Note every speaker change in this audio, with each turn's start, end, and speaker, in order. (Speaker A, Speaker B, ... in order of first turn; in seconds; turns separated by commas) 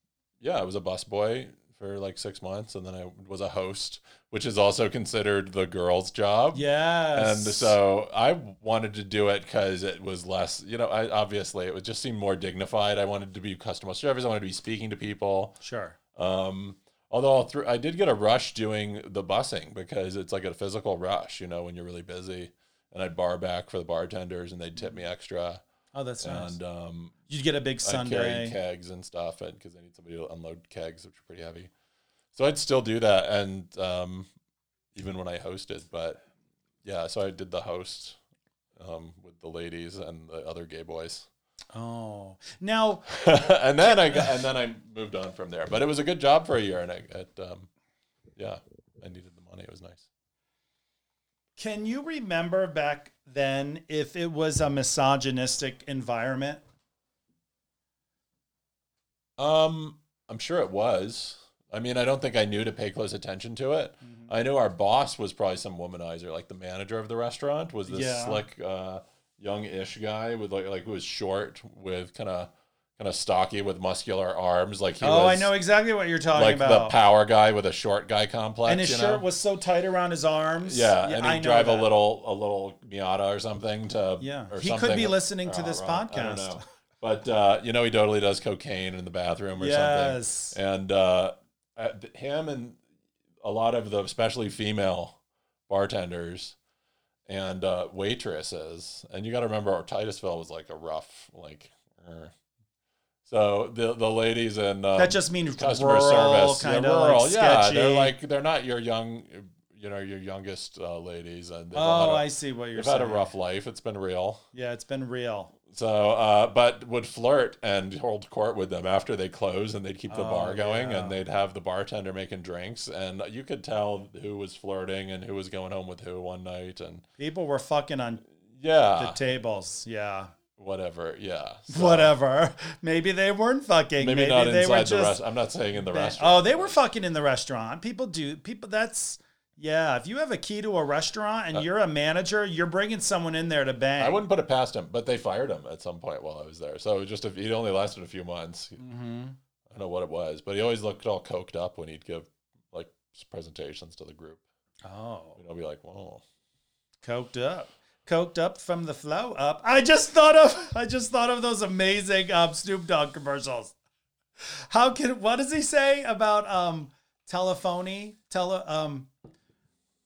Speaker A: 0.4-6.6, Speaker B: 6.5-7.8, Speaker A: 7.1-15.6, Speaker B: 15.6-16.0, Speaker A: 16.1-25.6, Speaker B: 25.9-26.6, Speaker A: 26.2-27.1, Speaker B: 27.3-28.6, Speaker A: 27.8-31.7, Speaker A: 32.3-34.3, Speaker A: 34.9-36.2, Speaker A: 36.8-38.2, Speaker A: 38.8-41.3, Speaker B: 41.7-43.2, Speaker A: 43.1-47.7, Speaker A: 48.4-50.0, Speaker B: 51.6-56.6, Speaker A: 59.4-75.5, Speaker B: 64.0-64.3, Speaker B: 67.9-68.4, Speaker B: 75.0-76.9, Speaker A: 76.3-79.2, Speaker B: 78.7-81.9, Speaker A: 80.6-92.8, Speaker B: 84.2-86.6, Speaker B: 89.6-90.5, Speaker A: 93.4-96.5, Speaker A: 97.3-102.3, Speaker A: 103.2-114.4, Speaker B: 105.0-108.1, Speaker B: 111.7-113.2, Speaker B: 114.5-115.5, Speaker A: 115.7-127.0, Speaker B: 120.1-121.2, Speaker B: 127.2-128.2, Speaker A: 128.5-129.2, Speaker B: 129.0-130.3, Speaker A: 130.6-132.1, Speaker B: 131.7-135.2, Speaker A: 134.0-136.8, Speaker B: 135.8-144.2, Speaker A: 144.0-148.8, Speaker B: 148.8-149.4, Speaker A: 149.7-154.4, Speaker B: 154.8-155.4, Speaker A: 155.4-156.2, Speaker B: 157.0-163.7, Speaker B: 164.4-169.1